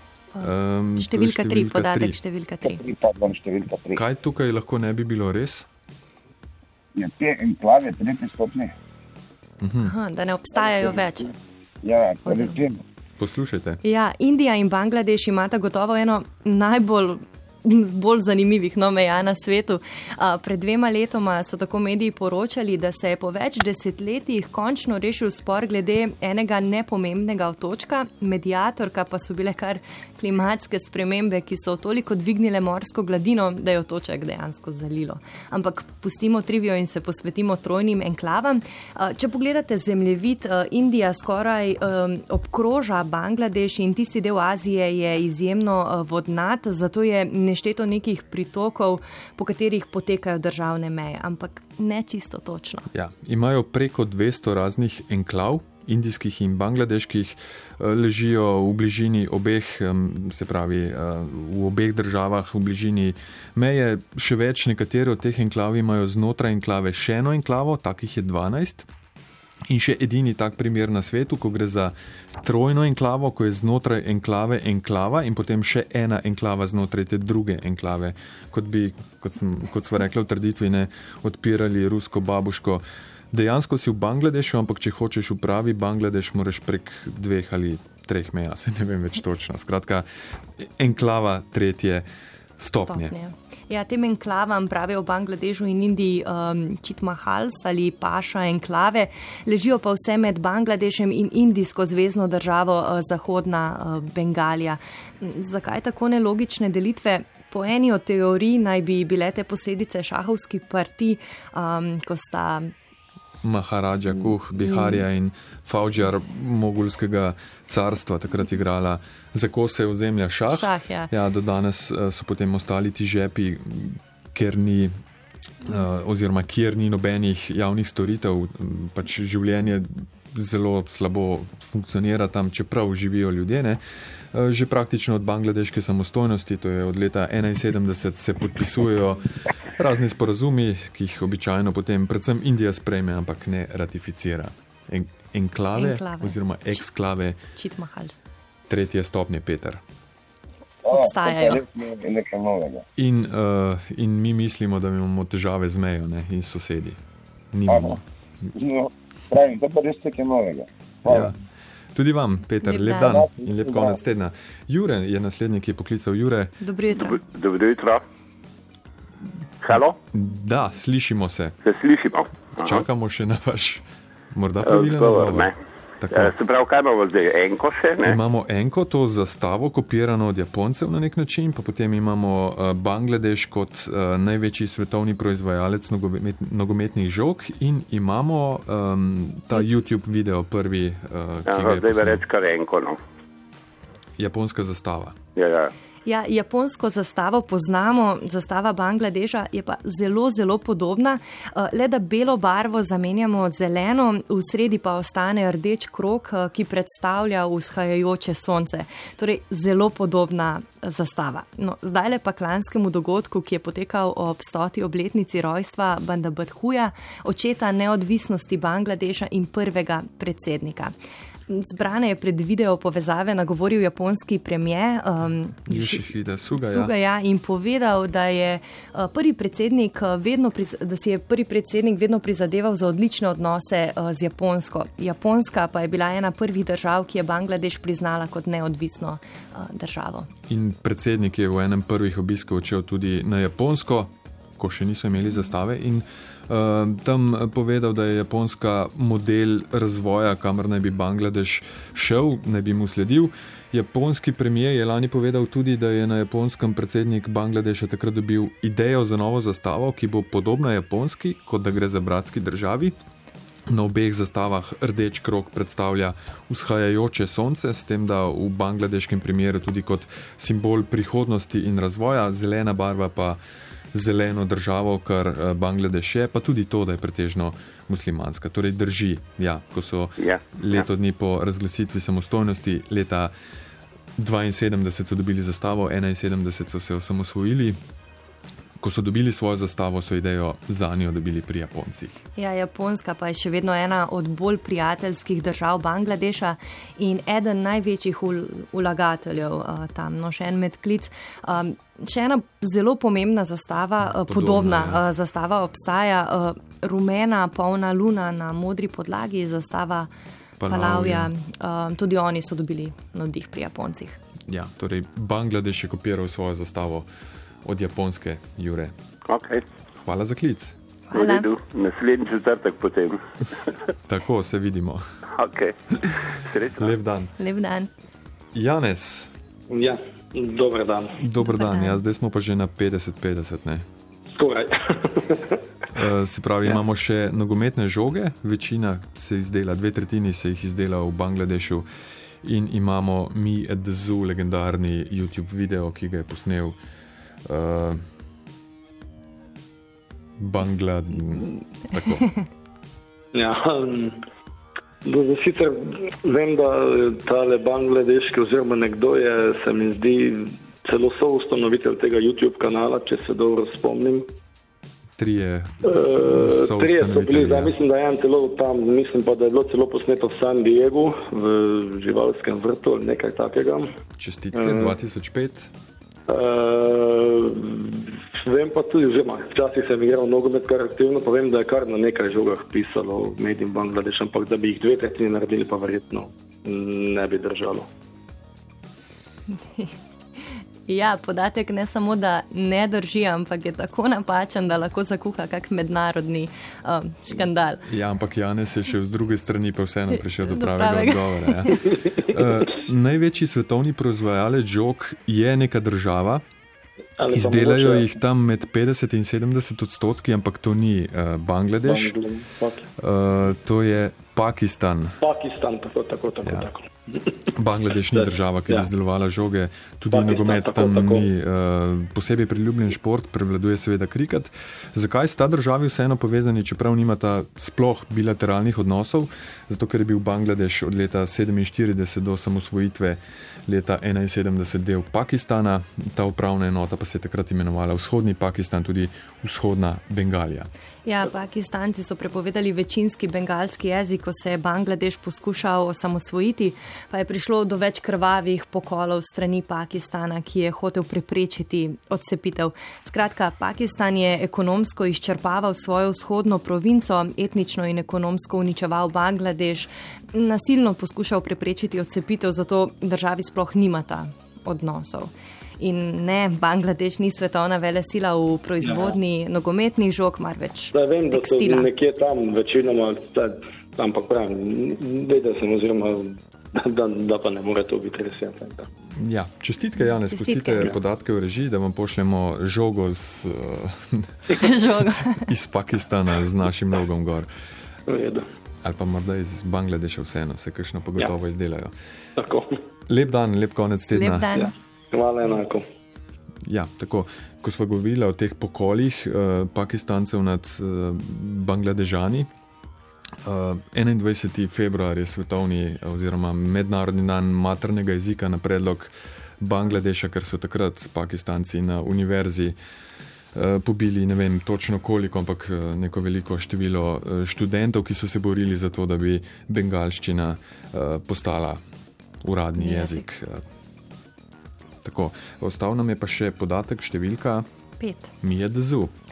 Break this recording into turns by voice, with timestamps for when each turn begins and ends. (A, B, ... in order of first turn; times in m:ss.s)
0:00.3-0:02.8 A
0:00.4-0:02.2 B
0:02.6-0:04.0 C
0:03.9-0:05.7 B
0:06.9-0:08.7 C
0:09.6-0:09.9 B
0:09.8-0:11.3 A
0:11.8-0:12.8 C
0:12.2-0:12.6 A
0:13.2-0:13.8 B
0:13.8-0:52.9 A
0:52.9-1:08.9 B
1:09.7-1:30.0 B
1:30.6-1:32.0 B
1:32.6-1:33.1 B
1:32.8-1:52.7 A
1:53.4-2:04.9 B
1:54.5-1:55.0 A
2:00.5-2:01.1 A
2:05.6-2:13.8 B
2:14.3-2:27.4 B
2:25.7-2:26.4 A
2:27.6-2:28.2 A
2:28.7-2:29.8 B
2:30.8-2:32.8 C
2:30.9-2:31.6 A
2:33.0-2:37.0 B
2:37.5-2:38.0 B
2:37.7-2:38.0 C
2:38.5-2:41.3 C
2:41.0-2:41.4 B
2:41.9-2:46.6 B
2:42.6-2:43.2 A
2:43.0-2:44.0 C
2:46.6-2:47.2 A
2:46.9-2:48.0 D
2:49.6-2:50.0 D
2:49.7-2:51.6 B
2:51.6-2:52.8 D
2:52.5-2:56.3 B
2:54.6-2:55.5 D
2:56.1-2:58.2 D
2:58.0-3:12.2 B
3:11.5-3:13.0 D
3:14.2-3:15.2 B
3:15.4-3:15.7 D
3:16.0-3:40.9 A
3:41.5-4:00.3 A
3:45.7-3:46.9 B
4:00.5-4:22.9 B
4:23.7-4:33.4 B
4:33.9-4:43.3 B
4:40.2-4:40.8 D
4:44.2-4:47.8 B
4:48.8-4:52.1 B
4:52.4-5:10.1 A
5:04.0-5:05.0 B
5:10.6-5:11.3 B
5:10.6-5:14.2 A
5:14.5-5:17.1 B
5:17.6-5:18.9 B
5:19.3-5:19.6 D
5:20.0-5:20.8 B
5:21.1-5:21.5 A
5:21.1-5:23.2 D
5:24.1-5:25.0 B
5:25.4-5:26.9 D
5:26.8-5:27.3 B
5:27.4-5:27.9 A
5:28.5-5:29.3 B
5:29.7-5:31.0 E
5:31.2-5:33.8 B
5:31.4-5:32.0 A
5:34.4-5:35.4 E
5:35.9-5:41.8 B
5:42.4-5:46.8 B
5:47.4-5:48.0 B
5:50.4-5:52.3 B
5:53.4-5:54.1 E
5:55.1-5:55.7 E
5:56.3-6:00.2 E
6:00.9-6:04.1 E
6:05.2-6:07.8 B
6:06.0-6:13.8 E
6:14.2-6:15.7 B
6:16.3-6:17.5 E
6:18.5-6:26.2 E
6:26.8-6:27.8 E
6:29.6-6:29.9 A
6:30.9-6:37.9 A
6:37.8-6:46.4 B
6:40.4-6:41.9 A
6:47.2-6:48.0 E
6:47.3-6:52.2 B
6:51.9-6:52.8 E
6:53.0-6:55.2 B
6:55.2-6:56.7 E
6:56.4-6:56.7 B
6:57.5-7:20.7 B
7:00.2-7:01.1 E
7:21.0-7:51.9 A
7:51.0-7:56.1 E
7:56.9-7:58.7 E
7:59.1-8:04.7 B
8:00.2-8:01.0 A
8:04.5-8:05.4 A
8:05.3-8:07.5 B
8:08.1-8:08.4 E
8:08.8-8:11.9 B
8:13.1-8:14.5 B
8:14.1-8:14.7 A
8:15.1-8:15.8 E
8:16.6-8:22.5 B
8:23.4-8:32.8 B
8:33.5-8:41.8 B
8:42.4-8:43.6 B
8:42.8-8:43.2 A
8:45.0-8:47.6 B
8:48.0-8:48.3 A
8:48.4-8:49.1 B